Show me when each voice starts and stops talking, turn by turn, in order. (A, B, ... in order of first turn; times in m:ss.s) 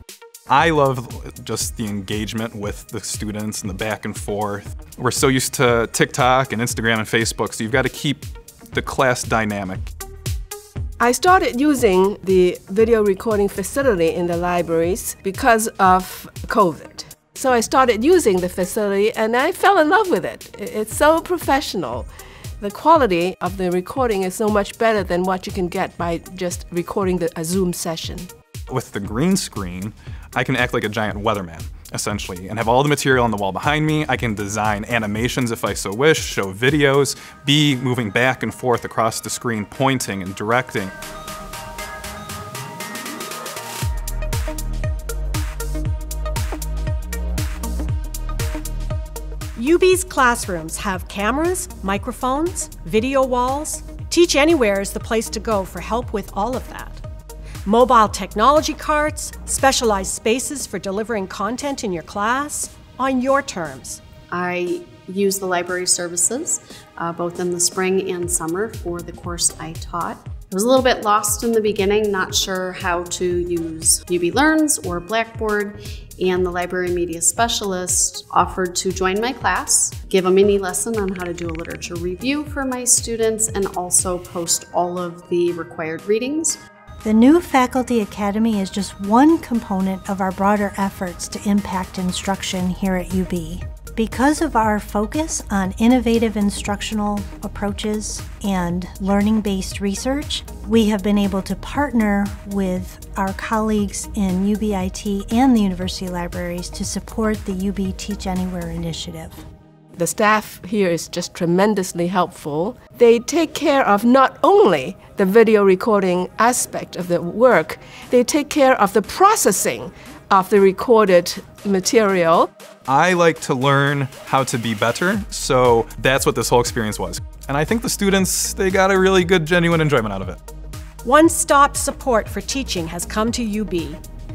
0:00.5-0:09.9 A
0:11.0-0:22.1 B
0:22.6-0:28.3 B
0:28.7-0:40.9 A
0:49.6-0:57.0 C
0:57.6-1:04.0 C
1:04.3-1:26.6 D
1:27.0-1:49.4 E
1:50.0-2:02.5 B
2:02.9-2:10.4 A
2:11.0-2:14.0 C